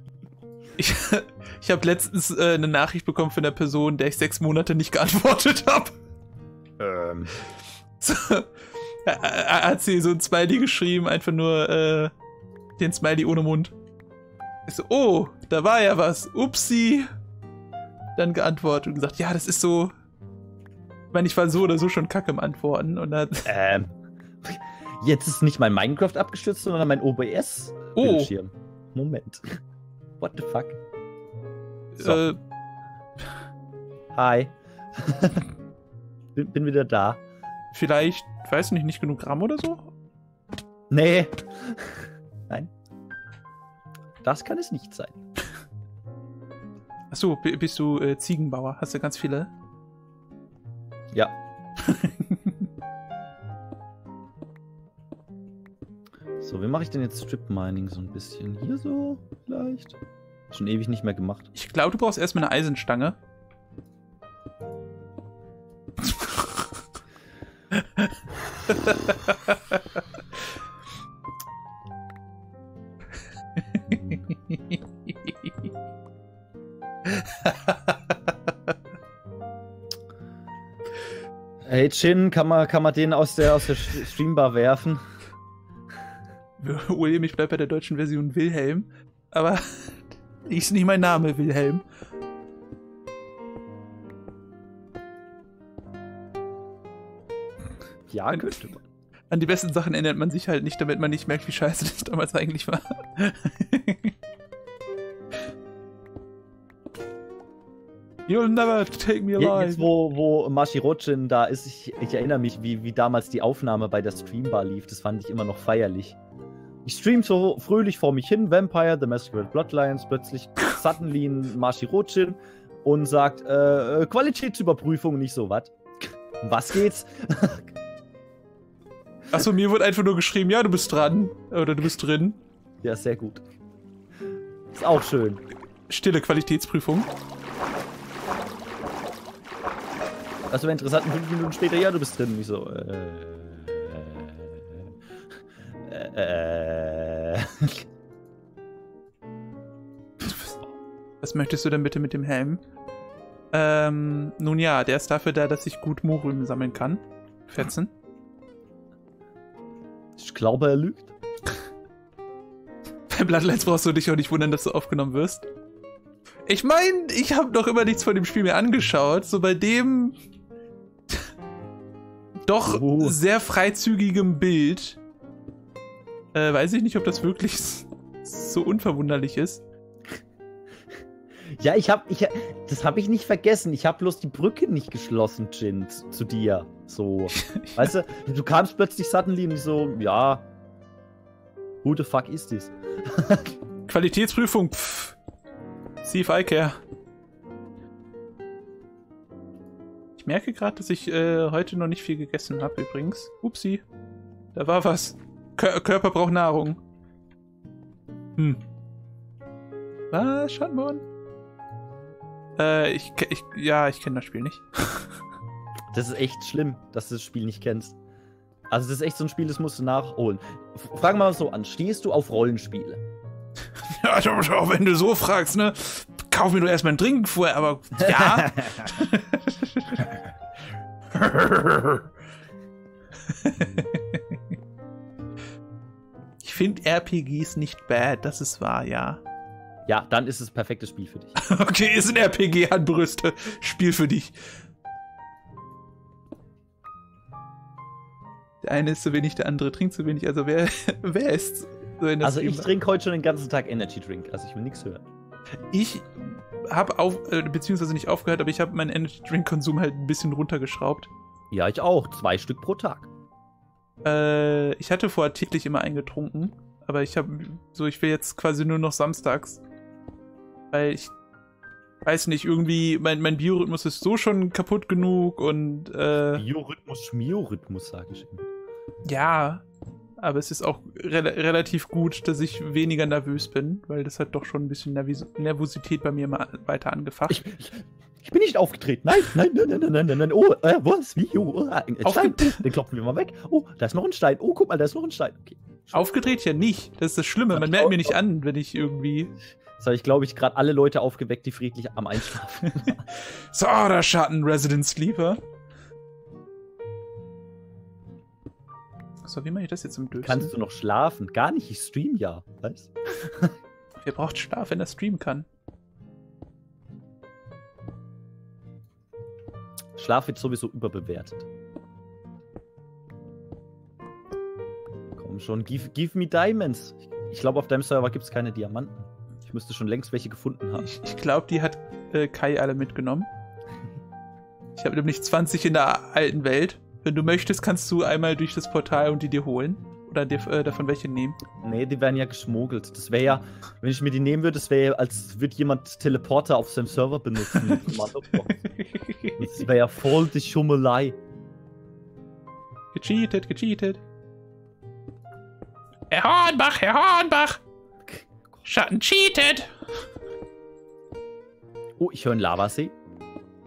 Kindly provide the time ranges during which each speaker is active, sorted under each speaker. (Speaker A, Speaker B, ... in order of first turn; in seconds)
Speaker A: 0.8-6.0, 8.0-8.5, 9.0-12.1, 12.8-13.7, 14.7-17.1, 18.2-19.9, 21.1-23.5, 28.0-28.3, 31.9-32.4, 37.7-39.9, 47.1-49.5, 51.8-52.5, 61.5-63.2, 67.8-68.1, 68.7-69.8, 73.7-75.5, 77.1-78.3, 86.6-91.8, 98.3-98.6, 99.3-104.1, 108.3-109.9, 129.3-132.4, 135.9-137.1, 150.2-150.6, 151.2-152.6, 153.5-157.9, 163.1-165.5, 166.5-170.2, 172.5-175.0, 176.3-179.6, 187.3-187.9, 193.9-195.2, 196.0-196.8, 200.2-203.8, 204.5-206.8, 208.4-208.6, 210.1-211.1, 212.6-215.2, 223.9-230.2, 231.2-231.8, 233.3-234.4, 236.4-239.2, 241.4-244.3, 248.6-252.7, 255.7-261.1, 264.0-269.6, 270.7-271.1, 272.1-276.4, 279.1-279.6, 280.2-287.5, 292.0-292.6, 295.9-299.3, 302.9-305.4, 309.2-310.5, 314.0-315.5, 330.8-333.3, 334.8-341.4, 347.5-347.9, 348.7-349.5, 352.9-354.0, 356.1-357.6, 358.6-359.7
Speaker B: 6.8-7.3, 23.5-29.6, 30.2-30.8, 32.0-32.3, 34.1-35.5, 36.4-37.2, 40.9-42.7, 44.2-45.2, 56.4-60.0, 60.5-61.5, 81.6-85.0, 98.1-98.8, 109.4-116.2, 116.8-127.7, 132.8-133.4, 134.7-135.4, 140.5-144.9, 145.9-147.9, 160.2-161.1, 172.6-173.2, 181.5-190.5, 191.8-193.5, 215.9-218.0, 218.7-223.0, 228.0-228.9, 239.9-241.3, 252.2-255.0, 261.5-263.1, 276.3-278.5, 287.3-296.0, 297.5-298.2, 299.8-303.0, 310.2-313.5, 320.0-321.5, 325.2-330.9, 341.6-348.6, 349.4-351.2, 362.0-362.9